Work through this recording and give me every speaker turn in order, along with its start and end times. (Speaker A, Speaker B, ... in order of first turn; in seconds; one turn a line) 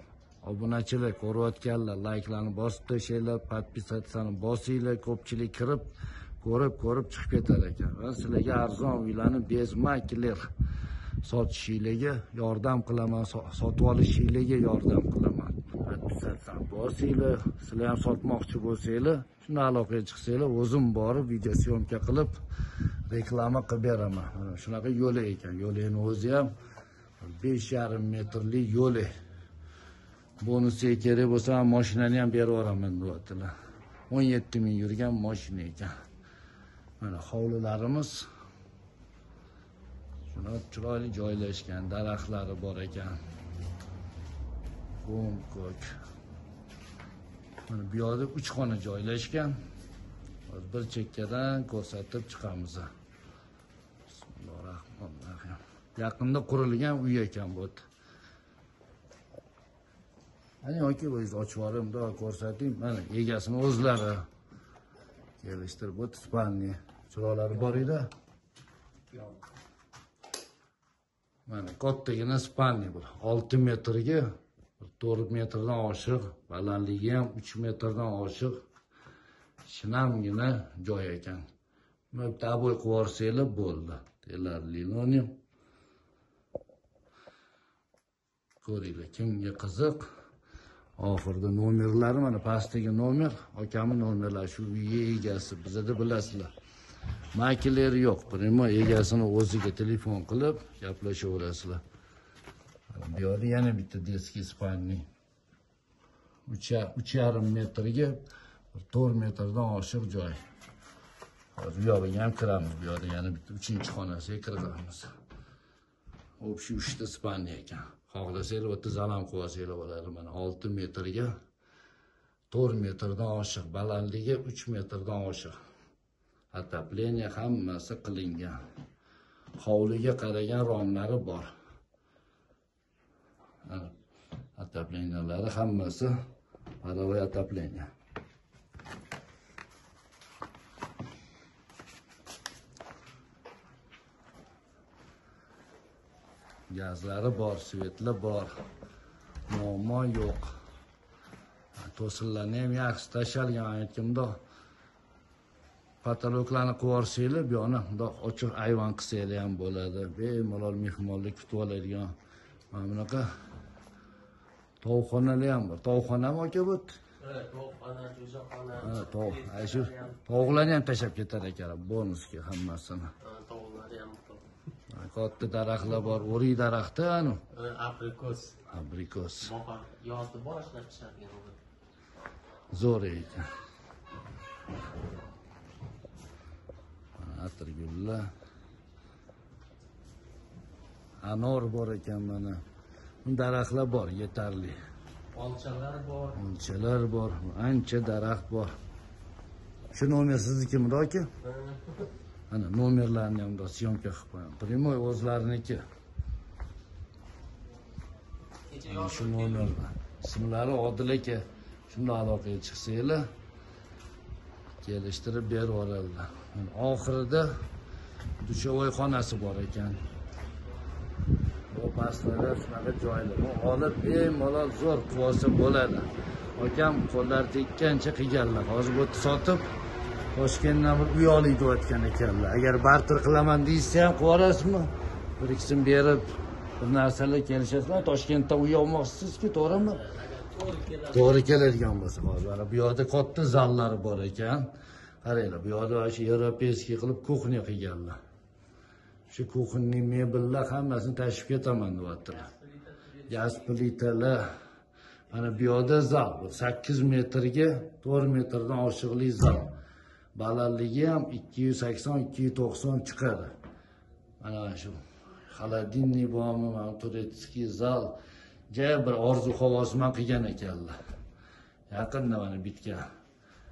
Speaker A: 0.4-10.4
Speaker A: 11.2-22.4
Speaker A: 23.1-26.5
Speaker A: 27.2-29.1
Speaker A: 30.4-33.5
Speaker A: 34.1-35.9
Speaker A: 37.0-38.3
Speaker A: 40.3-43.2
Speaker A: 45.0-45.9
Speaker A: 47.7-49.6
Speaker A: 50.5-52.9
Speaker A: 54.1-57.8
Speaker A: 60.6-64.3
Speaker A: 65.4-68.1
Speaker A: 71.5-74.2
Speaker A: 74.8-78.6
Speaker A: 79.7-81.4
Speaker A: 82.1-85.4
Speaker A: 88.6-90.1
Speaker A: 91.0-96.5
Speaker A: 97.3-101.8
Speaker A: 102.9-105.1
Speaker A: 106.5-108.2
Speaker A: 108.7-110.4
Speaker A: 111.6-115.1
Speaker A: 116.4-121.3
Speaker A: 122.5-125.5
Speaker A: 126.5-128.6
Speaker A: 129.6-131.5
Speaker A: 133.7-133.9
Speaker A: 134.6-136.1
Speaker A: 136.8-137.9
Speaker A: 146.7-148.5
Speaker A: 149.5-150.5
Speaker A: 151.8-154.4
Speaker A: 156.0-162.1
Speaker A: 162.7-163.3
Speaker A: 164.8-167.0
Speaker B: 167.2-170.2
Speaker A: 168.8-173.1
Speaker B: 173.2-174.4
Speaker A: 174.9-177.4
Speaker B: 177.5-178.6
Speaker A: 178.7-179.5
Speaker B: 179.4-181.6
Speaker A: 182.7-183.5
Speaker A: 187.2-188.3
Speaker A: 191.2-192.6
Speaker A: 193.2-194.8
Speaker B: 195.3-196.4
Speaker A: 196.4-198.7
Speaker A: 199.9-201.3
Speaker B: 201.4-202.1
Speaker A: 202.5-205.8
Speaker B: 208.7-209.7
Speaker A: 208.9-213.2
Speaker A: 214.8-217.5
Speaker A: 218.4-220.0
Speaker A: 221.7-229.7
Speaker A: 230.3-240.0
Speaker B: 239.9-241.5
Speaker A: 241.1-244.7
Speaker A: 245.2-248.2
Speaker A: 249.3-252.5
Speaker B: 252.5-253.4
Speaker A: 253.3-254.5
Speaker A: 255.3-259.7
Speaker A: 260.4-263.5
Speaker A: 264.4-268.2
Speaker A: 268.7-270.9
Speaker A: 271.9-273.0